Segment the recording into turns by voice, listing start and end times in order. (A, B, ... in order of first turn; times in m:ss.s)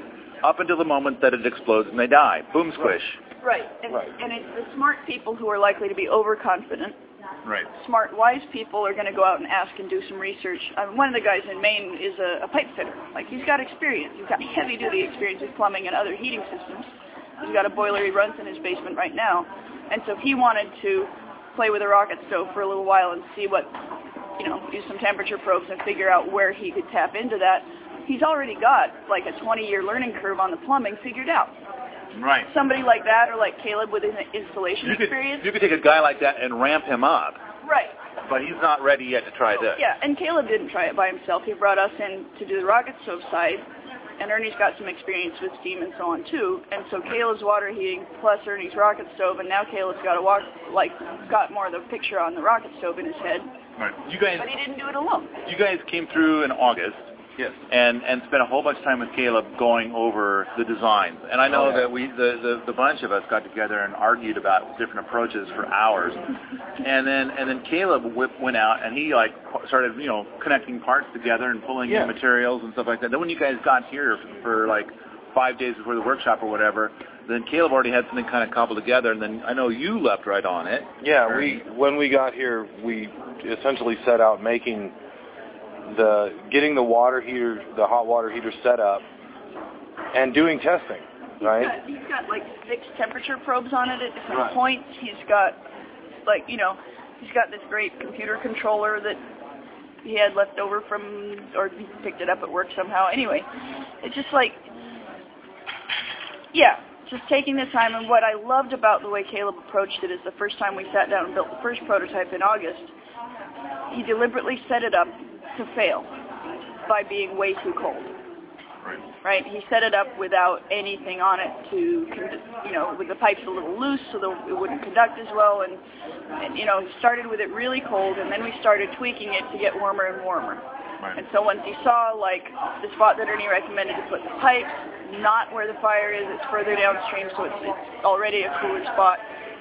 0:00.4-0:03.2 A
0:03.4-0:07.0 B
0:07.8-0:16.9 B
0:17.4-0:23.7 B
0:24.4-0:31.5 B
0:32.1-0:32.5 A
0:32.5-0:35.4 B
0:34.8-0:37.4 A
0:37.6-0:37.9 B
0:38.3-0:39.8 A
0:39.8-0:43.6 B
0:44.2-0:53.5 B
0:53.8-0:54.5 A
0:54.4-0:55.3 B
0:55.4-1:06.2 A
1:01.5-1:01.8 C
1:06.8-1:21.6 A
1:11.9-1:12.1 C
1:21.0-1:24.9 C
1:25.9-1:29.0 C
1:30.1-1:31.7 C
1:31.4-1:35.6 B
1:36.2-1:39.2 B
1:40.0-1:43.4 B
1:44.0-1:44.6 B
1:46.5-1:52.9 B
1:53.9-1:56.1 B
1:56.9-1:58.1 B
1:59.2-2:05.8 B
2:06.4-2:10.6 B
2:11.2-2:19.2 B